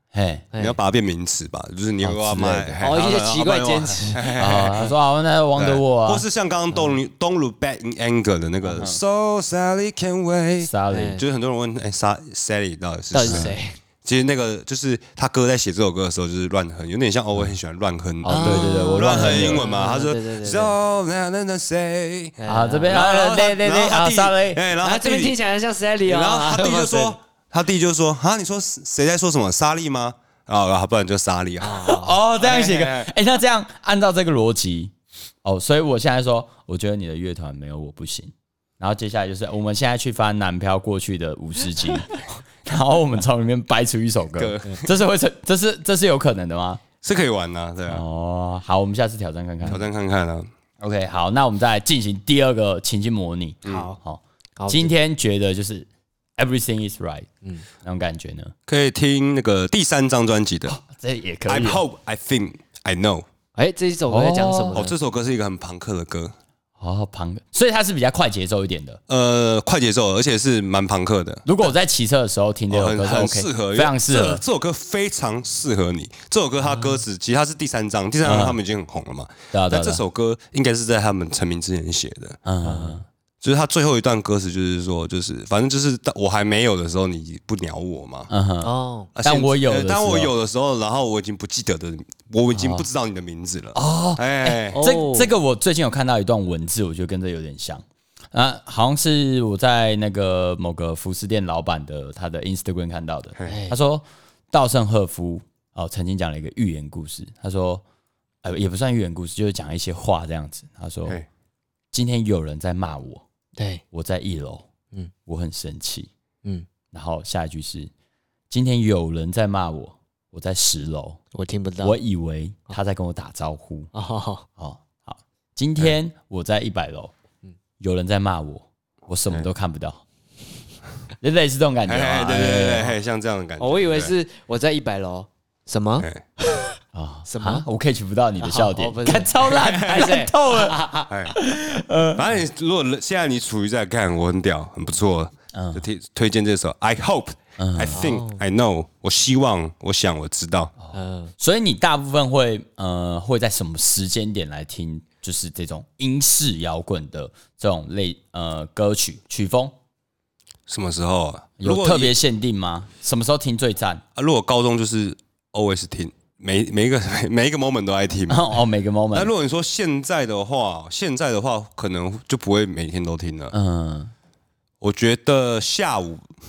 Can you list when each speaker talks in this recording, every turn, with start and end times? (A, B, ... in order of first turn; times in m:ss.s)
0:00.1-0:00.4 A
0:00.5-0:00.8 B
0:00.6-0:04.9 C
0:02.0-0:02.9 A
0:02.8-0:04.4 B
0:04.4-0:06.2 A
0:05.6-0:25.4 C
0:08.7-0:09.0 A
0:10.6-0:11.2 A
0:10.9-0:11.2 B
0:13.1-0:13.7 B
0:13.3-0:13.6 A
0:18.2-0:19.6 A
0:18.3-0:20.7 B
0:22.4-0:22.9 B
0:22.5-0:24.6 A
0:24.8-0:27.2 B
0:26.0-0:31.9 C
0:31.6-0:32.2 B
0:31.8-0:34.9 A
0:32.4-0:33.1 C
0:35.4-0:46.8 A
0:44.4-0:44.9 C
0:47.0-0:48.0 C
0:47.9-0:49.8 A
0:49.7-0:50.5 C
0:50.8-0:57.3 A
0:53.6-0:53.9 C
0:53.6-0:54.0 B
0:54.6-0:54.9 B
0:57.8-0:58.5 A
0:58.7-1:00.8 C
1:00.6-1:01.8 A
1:01.4-1:03.2 C
1:03.6-1:04.9 B
1:04.1-1:04.9 A
1:04.7-1:06.3 C
1:06.8-1:09.0 A
1:09.1-1:11.7 C
1:11.4-1:14.4 A
1:12.7-1:22.4 C
1:18.2-1:18.6 A
1:19.5-1:20.0 A
1:22.4-1:23.0 A
1:22.6-1:23.0 B
1:23.4-1:28.3 C
1:28.3-1:30.3 A
1:28.6-1:29.1 B
1:29.1-1:34.8 C
1:32.5-1:32.8 A
1:33.7-1:47.8 A
1:34.7-1:35.3 B
1:43.4-1:43.8 B
1:48.4-1:51.2 A
1:51.9-1:53.2 A
1:53.6-1:53.8 B
1:53.9-1:54.7 A
1:55.2-1:56.1 A
1:56.9-1:57.9 A
1:58.5-2:01.2 A
2:01.3-2:02.0 B
2:01.8-2:03.9 A
2:03.9-2:04.4 B
2:04.6-2:07.1 A
2:07.8-2:10.0 A
2:11.2-2:12.9 A
2:11.9-2:14.1 C
2:13.6-2:16.8 B
2:16.9-2:22.2 A
2:17.3-2:17.6 B
2:18.4-2:21.1 B
2:19.5-2:20.1 C
2:21.1-2:21.4 C
2:22.1-2:30.7 C
2:25.5-2:25.8 A
2:27.6-2:28.0 A
2:27.9-2:28.4 B
2:30.8-2:39.7 A
2:30.9-2:31.3 B
2:40.7-2:42.2 C
2:41.6-2:44.0 A
2:44.2-2:48.6 C
2:48.3-2:49.3 A
2:49.1-2:53.5 C
2:53.5-2:54.1 A
2:54.8-2:56.2 C